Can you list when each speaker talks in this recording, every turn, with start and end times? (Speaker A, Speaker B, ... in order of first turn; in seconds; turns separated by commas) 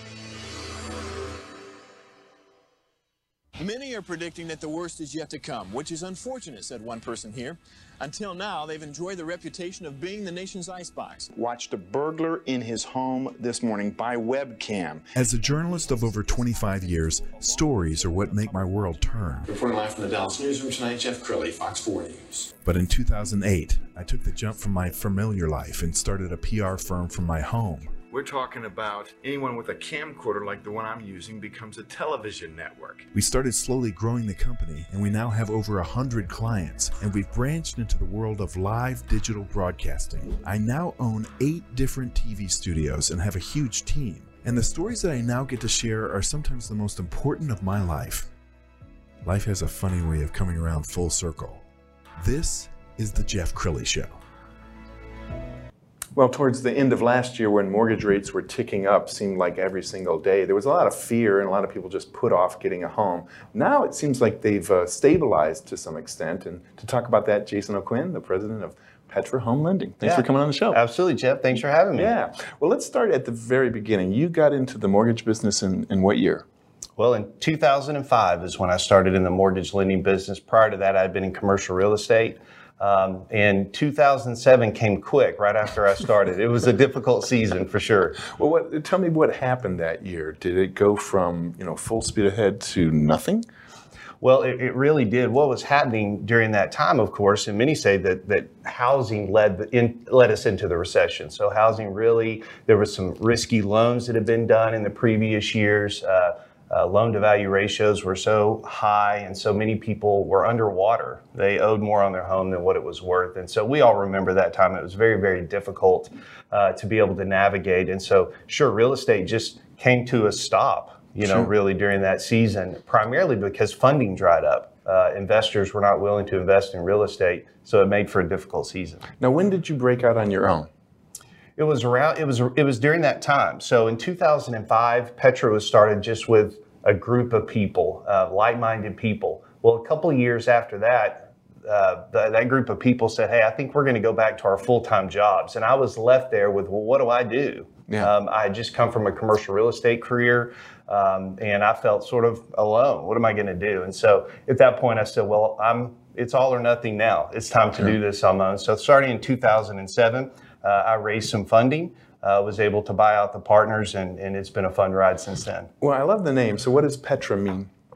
Speaker A: 3.6-11.3, Speaker B: 11.3-15.1, Speaker C: 15.1-19.5, Speaker A: 19.5-22.4, Speaker C: 22.6-29.4, Speaker D: 28.2-28.8, Speaker D: 29.4-29.8, Speaker C: 29.9-48.3, Speaker D: 32.5-32.9, Speaker C: 49.2-51.6, Speaker C: 52.2-54.2, Speaker D: 56.1-70.8, Speaker E: 70.0-72.1, Speaker D: 71.9-76.4, Speaker E: 77.0-88.2, Speaker D: 88.3-93.4, Speaker E: 94.2-129.0, Speaker D: 129.2-130.7, Speaker E: 131.6-165.7, Speaker D: 165.8-167.7